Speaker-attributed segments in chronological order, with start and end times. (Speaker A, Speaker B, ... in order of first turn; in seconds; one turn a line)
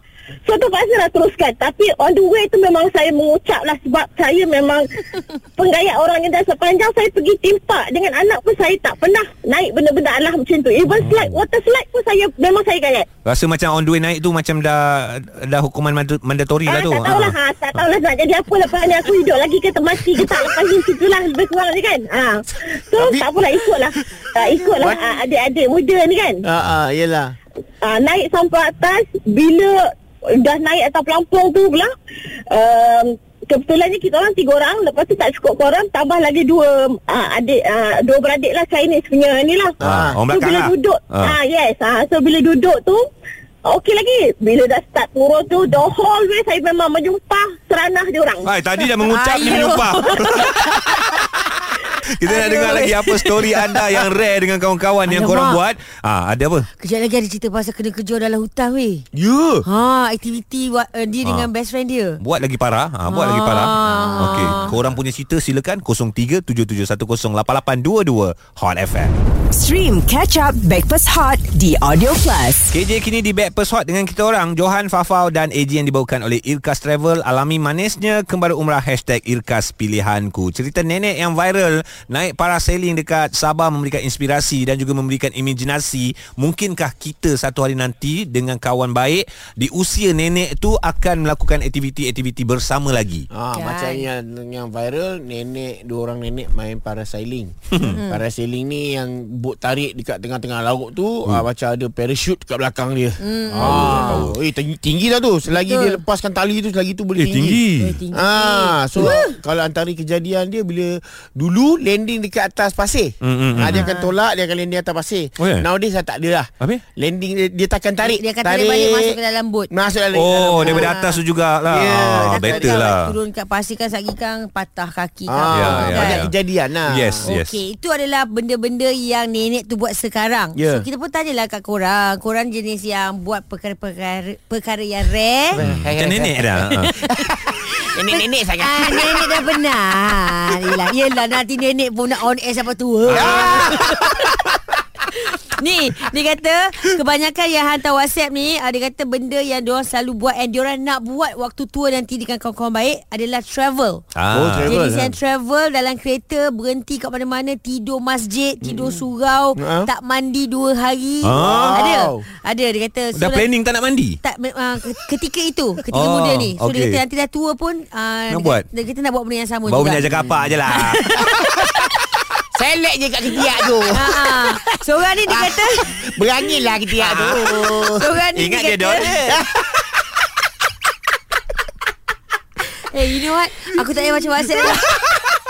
Speaker A: 0.5-13.1
Speaker B: 13.2-17.4
Speaker A: 16.7-26.4
Speaker C: 22.9-23.3
Speaker D: 24.4-25.1
Speaker C: 26.4-27.4
Speaker A: 27.8-29.8
Speaker A: 30.4-31.9
Speaker A: 32.5-39.7
Speaker C: 39.8-40.2
Speaker B: 39.8-41.4
Speaker A: 40.3-43.0
Speaker A: 43.7-48.5
Speaker B: 48.5-56.7
Speaker D: 49.0-50.2
Speaker D: 52.2-53.8
Speaker D: 55.1-55.6
Speaker D: 56.8-59.1
Speaker C: 59.1-59.7
Speaker D: 59.6-62.2
Speaker B: 61.2-61.5
Speaker B: 62.2-69.2
Speaker D: 63.1-64.8
Speaker E: 69.5-72.7
Speaker B: 72.7-93.3
Speaker C: 93.3-119.2
Speaker D: 93.5-94.1
Speaker B: 97.7-98.0
Speaker D: 97.8-98.2
Speaker D: 103.2-104.3
Speaker B: 103.6-104.3
Speaker D: 105.5-106.0
Speaker B: 107.2-108.0
Speaker D: 107.8-109.4
Speaker B: 113.2-113.8
Speaker D: 113.7-114.1
Speaker B: 115.4-115.7
Speaker D: 118.0-119.7
Speaker C: 119.7-121.0
Speaker B: 120.1-123.2
Speaker D: 120.6-121.2
Speaker C: 121.7-122.8
Speaker D: 122.0-126.3
Speaker C: 125.3-127.3
Speaker B: 125.5-126.3
Speaker B: 126.9-127.6
Speaker D: 127.3-135.6
Speaker C: 130.6-130.9
Speaker C: 135.5-139.5
Speaker B: 135.6-136.9
Speaker D: 136.9-144.2
Speaker B: 143.1-143.8
Speaker C: 143.1-144.3
Speaker D: 145.3-154.0
Speaker B: 154.2-154.7
Speaker C: 154.3-155.2
Speaker D: 154.7-163.5
Speaker C: 158.6-159.1
Speaker C: 159.6-159.9
Speaker B: 161.2-161.8
Speaker C: 161.4-162.2
Speaker B: 163.2-164.2
Speaker D: 164.2-170.2
Speaker B: 165.9-167.0
Speaker B: 168.3-168.7
Speaker B: 169.7-171.3
Speaker C: 170.2-170.6
Speaker C: 171.1-171.9
Speaker C: 172.5-178.1
Speaker D: 173.9-176.0
Speaker B: 177.0-177.2
Speaker D: 177.3-179.2
Speaker B: 178.3-179.4
Speaker C: 179.3-179.9
Speaker D: 182.9-184.9
Speaker C: 184.9-185.2